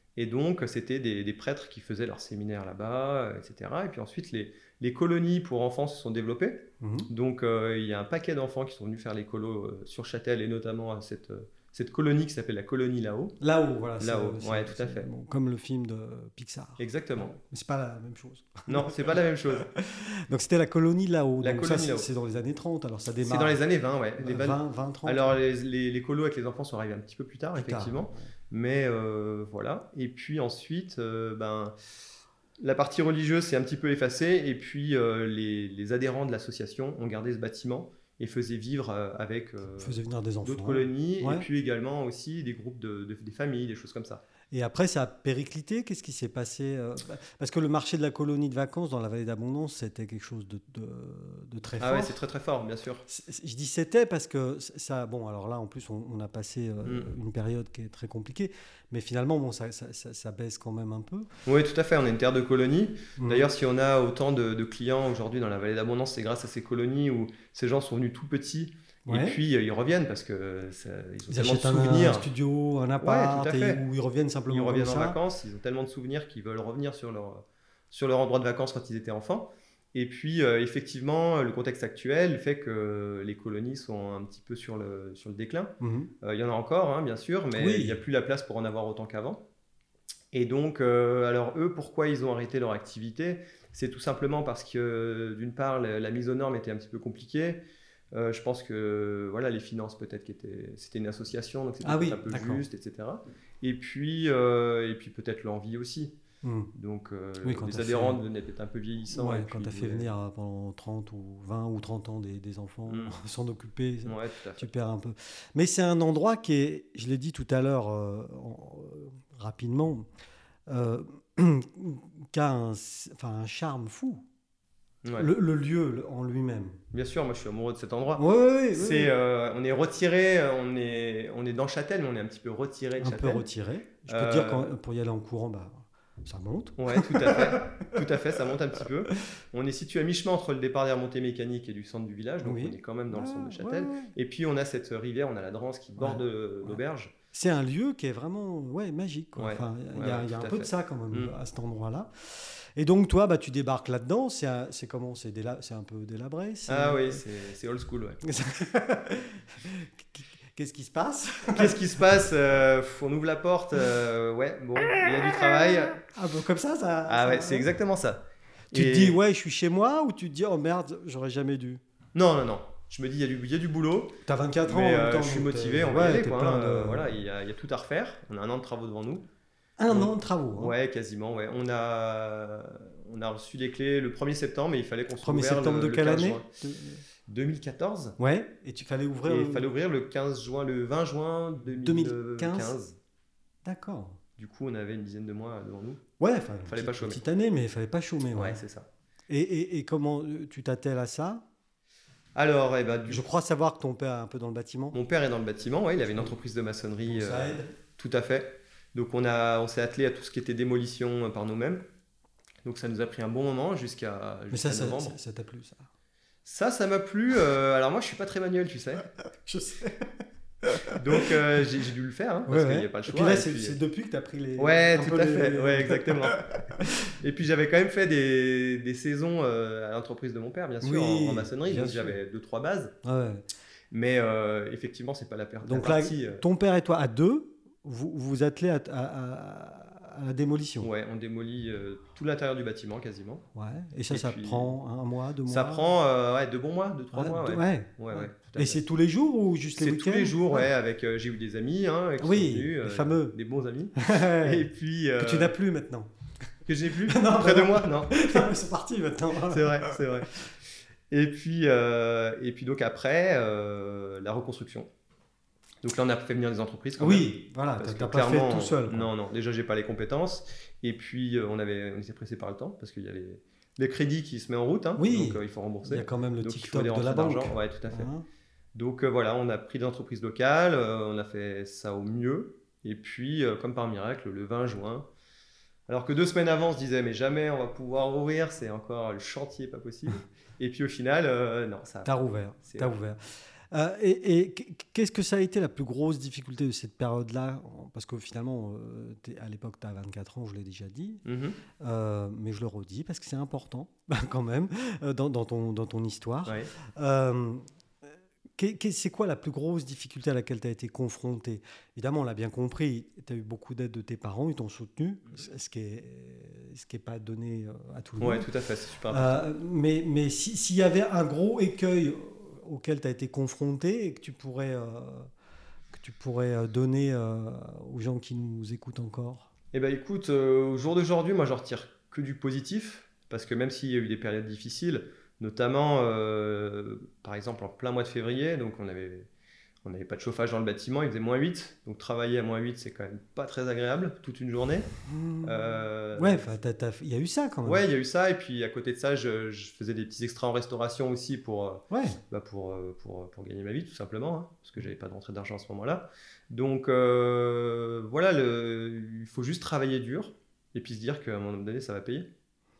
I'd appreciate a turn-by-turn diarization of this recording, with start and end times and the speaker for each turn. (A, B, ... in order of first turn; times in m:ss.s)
0:00.2-0:13.4 A
0:06.8-0:07.1 B
0:13.4-0:23.6 B
0:14.0-0:15.1 A
0:16.8-0:17.4 A
0:18.7-0:19.7 A
0:21.4-0:22.1 A
0:23.2-0:31.8 A
0:24.2-0:25.4 B
0:27.6-0:28.3 B
0:32.6-0:44.2 A
0:39.8-0:41.5 B
0:44.5-0:52.2 B
0:51.8-0:53.0 A
0:53.1-1:01.3 B
0:56.8-0:57.1 A
1:01.5-1:12.3 A
1:03.2-1:03.5 B
1:09.1-1:09.4 B
1:11.3-1:15.2 B
1:13.0-1:13.8 A
1:14.5-1:29.4 A
1:25.8-1:26.1 B
1:27.6-1:28.0 B
1:30.3-1:37.6 A
1:38.1-1:46.2 A
1:41.8-1:42.6 B
1:46.4-1:46.7 B
1:46.8-1:50.1 A
1:47.4-1:48.2 B
1:49.1-2:00.1 B
1:52.9-1:53.2 A
1:54.1-1:54.7 A
2:00.7-2:04.2 B
2:05.0-2:05.3 A
2:05.2-2:06.8 B
2:06.9-2:13.5 A
2:08.2-2:09.1 B
2:13.0-2:17.9 B
2:14.1-2:14.7 A
2:16.8-2:27.1 A
2:22.4-2:24.1 B
2:26.0-2:26.8 B
2:27.3-2:37.2 B
2:29.4-2:31.3 A
2:36.7-2:38.2 A
2:38.2-2:42.0 B
2:41.5-2:46.0 A
2:45.2-2:47.7 B
2:47.1-2:48.2 A
2:48.7-2:49.2 A
2:48.7-2:51.8 B
2:52.2-2:59.3 A
2:54.3-2:57.1 B
2:59.8-3:00.8 B
2:59.9-3:06.5 A
3:05.2-3:07.0 B
3:07.3-3:08.2 A
3:08.2-3:09.7 B
3:09.3-3:13.0 A
3:11.8-3:12.8 B
3:13.6-3:14.2 B
3:14.4-3:16.0 A
3:16.2-3:18.6 B
3:16.7-3:17.2 A
3:18.4-3:18.9 A
3:19.3-3:21.4 B
3:22.4-3:23.2 A
3:23.1-3:25.0 B
3:24.9-3:31.8 A
3:27.1-3:27.7 B
3:32.6-3:35.2 A
3:34.5-3:35.9 B
3:36.4-3:39.1 A
3:39.4-3:41.4 B
3:41.0-3:43.8 A
3:42.5-3:47.1 B
3:44.6-3:46.4 A
3:47.2-3:53.0 A
3:50.8-3:52.2 B
3:53.0-3:53.4 B
3:53.9-3:56.4 A
3:55.6-4:00.9 B
4:00.8-4:03.4 A
4:03.6-4:05.9 B
4:04.1-4:04.7 A
4:05.5-4:08.8 A
4:07.1-4:10.7 B
4:09.8-4:15.6 A
4:12.2-4:13.4 B
4:14.0-4:16.1 B
4:16.7-4:18.5 A
4:17.0-4:20.0 B
4:19.5-4:20.3 A
4:21.1-4:24.9 A
4:25.8-4:38.1 A
4:27.0-4:29.1 B
4:35.0-4:38.2 B
4:38.7-4:45.1 A
4:45.9-4:52.1 A
4:52.0-5:01.2 B
4:52.6-4:52.9 A
5:01.2-5:01.6 A
5:01.8-5:07.6 B
5:08.6-5:18.5 B
5:18.2-5:19.5 A
5:19.1-5:25.3 B
5:25.9-5:29.5 B
5:29.7-5:39.3 A
5:39.8-5:44.9 A
5:45.1-5:47.8 B
5:45.4-5:46.4 A
5:47.6-6:02.3 A
5:51.9-5:52.2 B